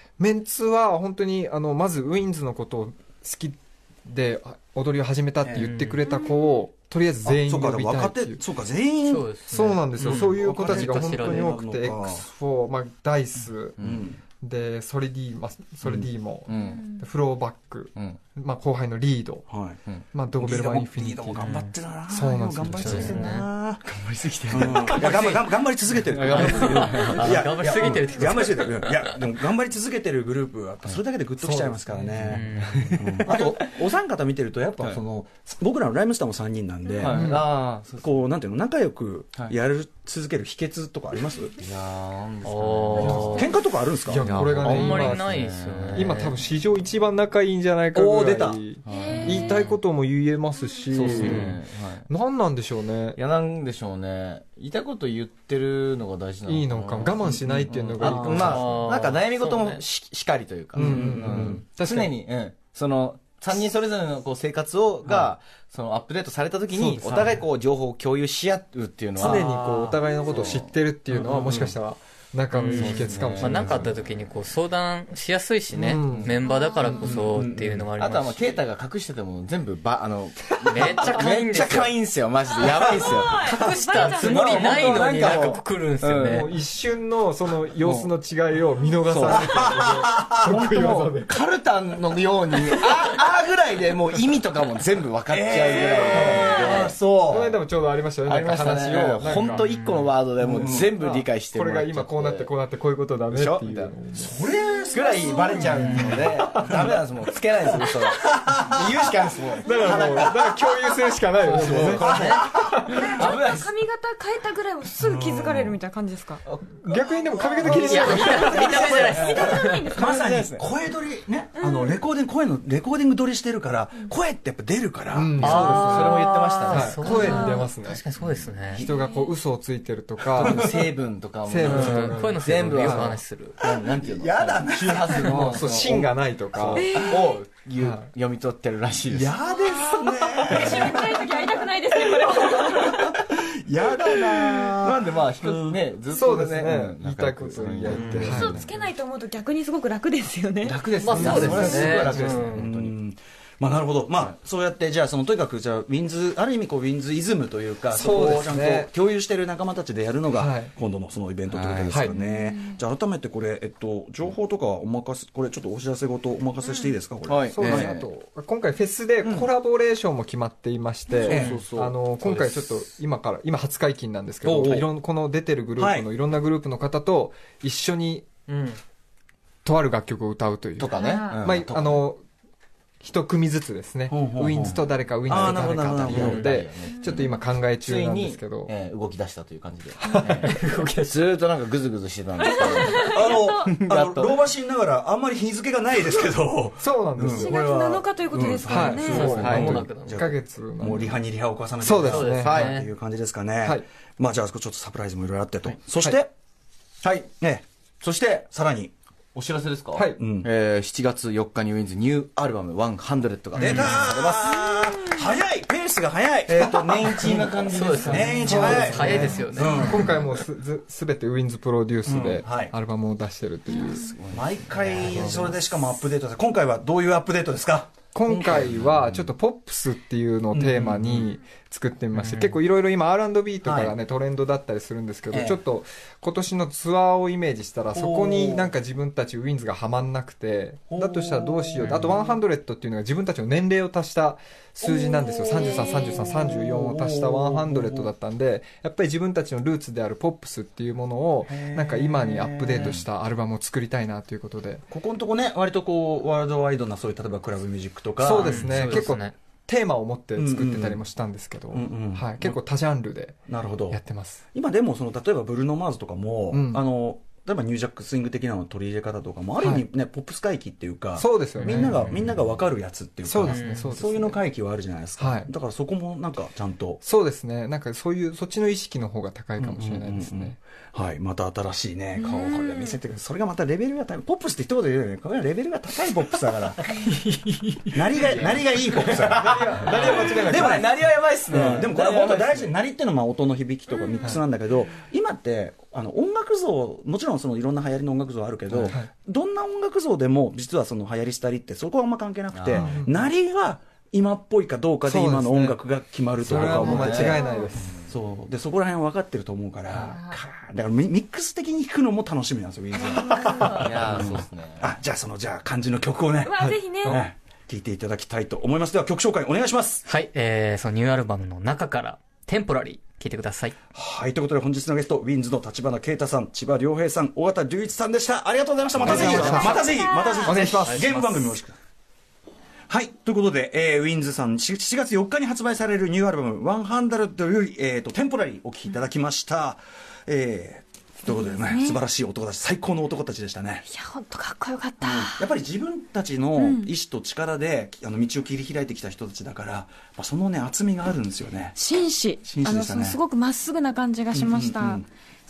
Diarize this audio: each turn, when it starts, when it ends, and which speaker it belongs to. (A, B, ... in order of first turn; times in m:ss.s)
0:00.2-0:08.4 A
0:05.6-0:06.0 B
0:06.1-0:06.6 C
0:07.2-0:12.2 D
0:09.0-0:11.5 B
0:09.5-0:13.8 A
0:13.8-0:14.0 E
0:13.8-0:14.2 D
0:14.4-0:19.5 A
0:16.4-0:16.8 E
0:19.5-0:19.8 D
0:20.1-0:21.5 A
0:20.3-0:23.9 D
0:21.4-0:21.7 B
0:22.1-0:23.3 A
0:22.8-0:23.5 B
0:23.8-0:28.0 E
0:24.5-0:41.6 D
0:25.0-0:25.4 B
0:26.2-0:29.2 B
0:31.4-0:32.4 A
0:32.2-0:33.2 B
0:32.4-0:33.7 E
0:36.9-0:38.2 E
0:37.1-0:37.5 A
0:41.6-0:43.5 E
0:42.4-0:43.5 B
0:43.0-0:44.6 D
0:44.0-0:53.2 A
0:44.2-0:46.1 E
0:44.6-0:46.4 B
0:47.9-0:48.6 D
0:48.8-0:49.6 E
0:48.8-0:49.7 C
0:49.1-0:49.8 B
0:50.9-0:52.1 E
0:51.0-0:51.5 D
0:51.1-0:51.4 B
0:53.1-1:09.5 E
0:56.4-0:58.7 A
0:57.2-0:58.8 D
0:57.5-0:59.8 B
1:00.7-1:02.1 A
1:00.8-1:01.6 D
1:05.0-1:05.3 D
1:06.7-1:07.4 A
1:07.1-1:07.4 D
1:09.2-1:14.0 A
1:09.2-1:10.0 D
1:10.2-1:11.7 E
1:11.1-1:11.7 D
1:12.6-1:18.6 B
1:12.6-1:14.0 E
1:15.7-1:16.3 A
1:16.0-1:16.4 E
1:16.4-1:17.1 C
1:16.9-1:17.9 D
1:18.0-1:26.5 E
1:20.6-1:22.0 B
1:22.7-1:25.1 C
1:22.9-1:26.5 B
1:26.2-1:31.3 A
1:27.8-1:28.1 E
1:29.0-1:29.8 E
1:29.3-1:32.2 D
1:30.8-1:37.0 E
1:35.3-1:37.6 D
1:35.8-1:39.7 A
1:38.2-1:42.5 E
1:39.4-1:40.1 B
1:40.4-1:40.9 D
1:40.7-1:44.4 A
1:43.3-1:43.9 E
1:44.2-1:45.6 D
1:44.4-1:45.9 C
1:44.9-1:50.5 E
1:45.8-1:46.9 A
1:45.8-1:46.1 B
1:48.4-1:48.8 D
1:49.6-1:53.0 A
1:49.6-1:50.3 C
1:51.4-1:52.3 E
1:51.9-1:53.3 D
1:52.0-1:52.5 B
1:52.8-1:56.4 C
1:53.2-1:53.7 E
1:55.0-1:55.8 D
1:56.4-2:00.7 E
1:56.8-1:58.9 A
1:57.6-2:05.8 D
1:57.7-2:00.0 B
1:58.0-2:00.4 C
2:01.6-2:02.0 C
2:05.1-2:08.0 A
2:05.4-2:06.9 E
2:05.5-2:08.8 B
2:07.0-2:07.7 C
2:08.7-2:10.9 A
2:09.0-2:09.3 C
2:10.3-2:19.3 E
2:10.4-2:10.9 D
2:11.4-2:13.2 A
2:11.6-2:13.6 B
2:13.9-2:16.0 D
2:15.3-2:16.9 A
2:16.8-2:17.4 C
2:17.8-2:18.1 A
2:19.1-2:21.4 D
2:19.5-2:23.2 C
2:22.7-2:25.8 D
2:24.2-2:24.6 C
2:24.8-2:28.8 E
2:26.1-2:28.6 A
2:27.9-2:28.4 B
2:28.2-2:30.8 C
2:30.6-2:33.0 E
2:31.0-2:32.7 B
2:31.1-2:47.9 D
2:31.2-2:32.5 A
2:37.9-2:38.9 A
2:40.3-2:40.7 A
2:41.5-2:42.0 E
2:42.1-2:42.8 C
2:46.6-2:47.0 C
2:47.3-2:48.1 E
2:47.5-2:58.3 A
2:51.2-2:52.6 E
2:51.3-2:51.6 D
2:51.3-2:51.6 B
2:54.4-2:54.9 D
2:55.8-2:56.1 D
2:58.5-2:58.8 B
2:59.6-3:02.2 A
3:00.8-3:02.0 E
3:00.9-3:01.6 C
3:03.0-3:08.7 A
3:04.1-3:06.5 D
3:05.2-3:14.4 E
3:06.2-3:06.5 B
3:07.0-3:07.4 C
3:10.0-3:11.2 A
3:12.4-3:13.7 C
3:12.9-3:26.3 D
3:16.8-3:17.6 A
3:17.2-3:19.3 C
3:18.6-3:21.2 A
3:19.0-3:20.2 B
3:19.2-3:19.8 E
3:21.8-3:22.6 A
3:22.0-3:22.8 E
3:22.0-3:22.9 B
3:27.0-3:27.3 E
3:27.4-3:28.9 D
3:29.3-3:35.1 E
3:29.9-3:30.2 A
3:30.2-3:30.5 D
3:33.5-3:34.0 B
3:33.6-3:40.2 D
3:36.5-3:39.4 E
3:37.7-3:40.2 B
3:38.0-3:44.1 A
3:42.0-3:42.7 D
3:43.9-3:45.4 E
3:44.3-3:47.9 D
3:45.0-3:45.6 B
3:48.1-4:14.8 A
3:48.3-3:48.9 E
3:50.5-3:51.3 D
3:52.1-3:52.6 B
3:53.6-3:53.9 D
3:55.3-3:55.6 D
3:57.9-3:58.7 D
4:00.9-4:02.4 D
4:01.8-4:02.1 B
4:04.8-4:08.1 D
4:05.8-4:06.3 C
4:11.4-4:13.0 D
4:12.8-4:13.0 E
4:14.9-4:19.1 D
4:18.2-4:24.4 A
4:18.3-4:19.3 B
4:20.4-4:21.0 D
4:21.7-4:22.6 D
4:23.5-4:24.0 D
4:24.5-4:37.0 D
4:26.5-4:26.8 A
4:29.6-4:29.8 A
4:31.1-4:32.1 A
4:31.6-4:32.4 B
4:33.2-4:34.4 A
4:33.4-4:33.9 B
4:35.2-4:35.5 A
4:37.0-4:40.6 A
4:39.6-4:47.0 D
4:42.2-4:43.0 C
4:47.9-4:50.9 D
4:48.2-4:52.7 E
4:49.3-4:51.0 A
4:51.5-5:07.4 D
4:54.0-4:54.3 C
4:58.7-4:58.9 E
5:02.5-5:03.0 E
5:02.7-5:03.3 A
5:05.0-5:05.8 A
5:06.4-5:07.9 A
5:06.6-5:07.7 C
5:07.8-5:08.1 E
5:08.1-5:20.0 D
5:10.0-5:10.4 C
5:13.0-5:14.0 C
5:13.7-5:14.9 E
5:16.4-5:17.2 C
5:16.6-5:17.2 A
5:20.0-5:23.7 B
5:23.9-5:31.8 D
5:29.0-5:29.8 A
5:29.0-5:29.7 B
5:29.6-5:30.6 C
5:30.4-5:31.6 A
5:32.9-5:43.8 D
5:41.3-5:42.0 C
5:43.8-5:45.5 C
5:45.0-5:51.8 D
5:46.6-5:46.9 C
5:51.7-5:55.0 C
5:52.4-5:53.2 D
5:54.3-5:55.1 D